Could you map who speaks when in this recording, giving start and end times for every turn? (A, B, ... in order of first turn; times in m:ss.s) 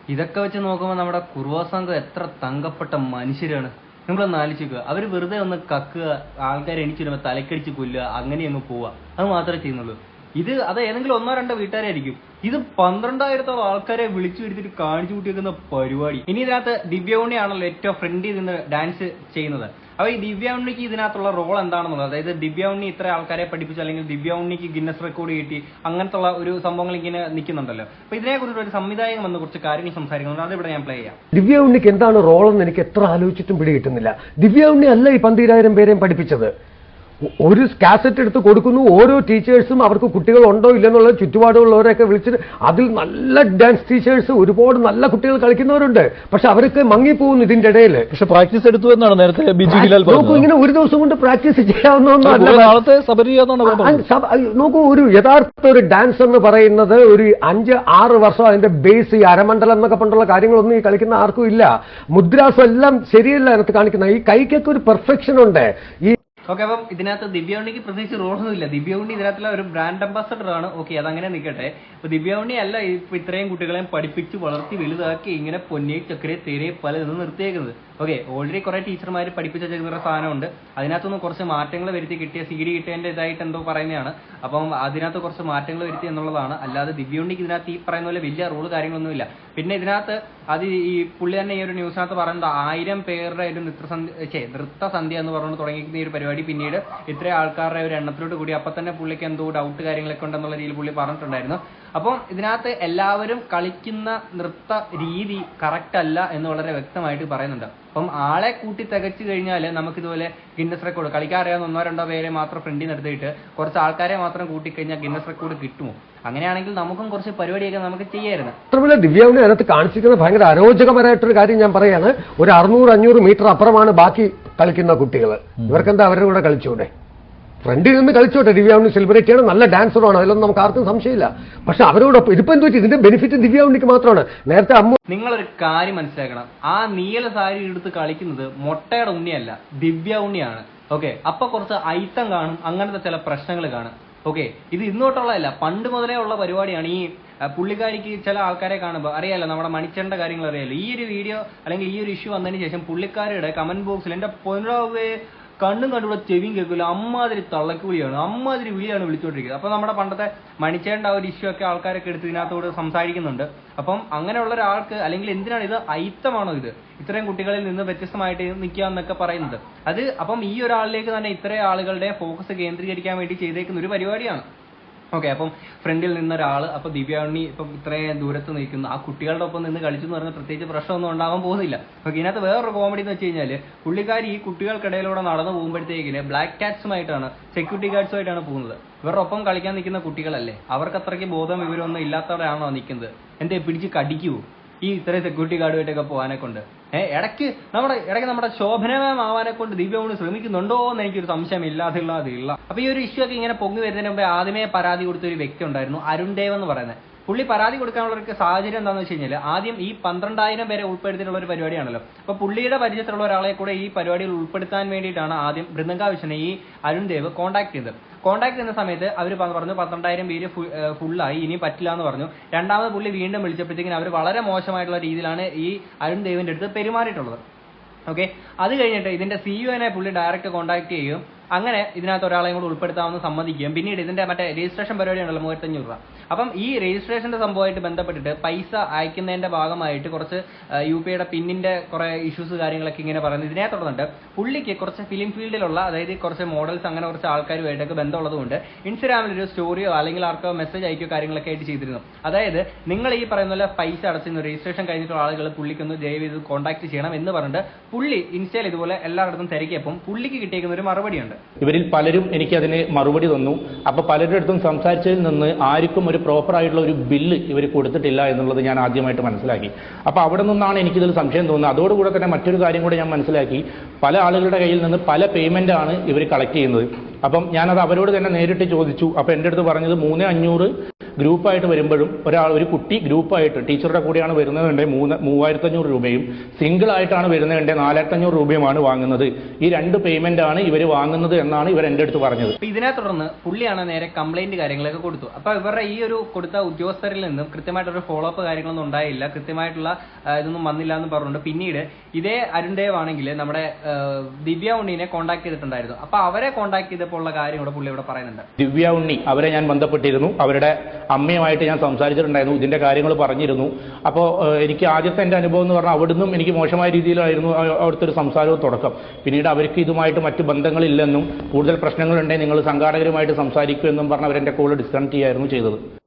0:00.1-0:31.2 A
0:31.3-0:36.5 B
0:37.5-0:48.1 B
0:48.1-0:50.4 C
0:49.6-0:52.8 B
0:52.2-0:54.0 C
0:53.6-1:06.2 B
1:06.5-1:58.6 A
1:58.7-2:06.9 B
2:07.6-2:15.0 B
2:15.1-2:54.5 A
2:55.1-3:47.4 A
3:48.1-4:21.4 A
4:21.6-4:52.6 D
4:52.6-5:08.5 A
5:08.6-5:25.8 D